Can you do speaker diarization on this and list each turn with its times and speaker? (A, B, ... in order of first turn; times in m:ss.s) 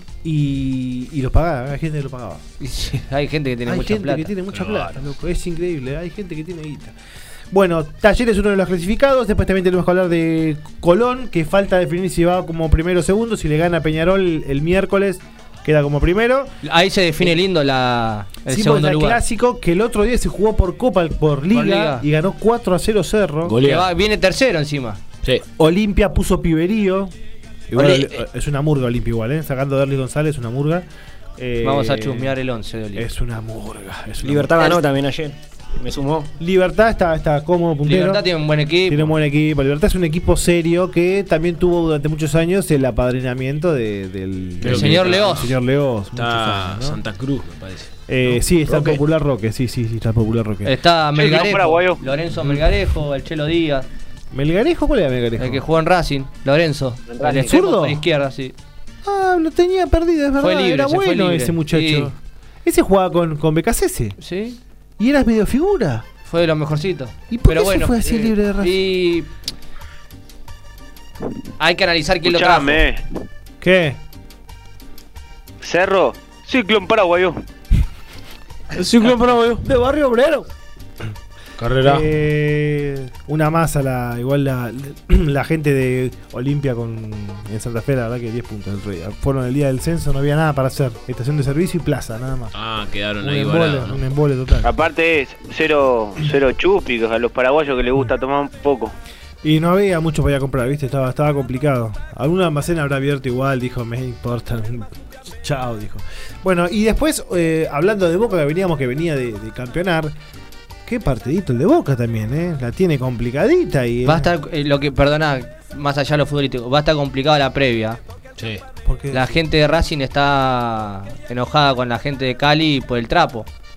0:00.2-0:02.4 A
0:02.6-0:04.3 B
0:03.6-0:06.9 A
0:04.5-0:04.9 C
0:07.5-0:16.5 A
0:16.6-0:19.2 B
0:18.5-0:23.6 A
0:21.5-0:22.0 B
0:23.4-0:23.9 C
0:23.6-0:25.0 B
0:25.6-0:27.1 A
0:27.7-0:30.8 A
0:31.4-0:32.3 A
0:31.6-0:33.0 B
0:32.9-0:34.7 A
0:34.2-0:36.3 D
0:36.4-0:38.2 A
0:37.8-0:39.1 B
0:38.9-0:47.0 A
0:44.6-0:45.4 C
0:44.6-0:45.6 B
0:46.2-0:48.0 C
0:48.1-0:50.7 A
0:48.7-0:49.0 C
0:50.6-0:53.9 B
0:51.1-0:52.0 E
0:54.3-0:55.6 A
0:55.4-0:58.5 B
0:57.1-0:57.5 E
0:57.2-0:58.0 A
0:59.0-1:04.2 A
1:00.4-1:02.1 B
1:04.2-1:04.6 B
1:05.0-1:06.1 A
1:06.2-1:09.3 B
1:07.3-1:08.8 A
1:11.6-1:12.8 B
1:12.2-1:13.0 E
1:13.6-1:14.0 A
1:15.6-1:17.4 E
1:18.8-1:19.6 C
1:19.0-1:20.5 A
1:21.6-1:22.1 C
1:21.8-1:32.5 A
1:32.5-1:34.0 C
1:33.2-1:34.7 A
1:34.6-1:38.9 E
1:39.4-1:50.1 A
1:50.8-1:54.3 A
1:54.0-1:58.0 B
1:58.4-1:58.6 C
1:58.8-1:59.4 A
1:59.1-2:03.5 B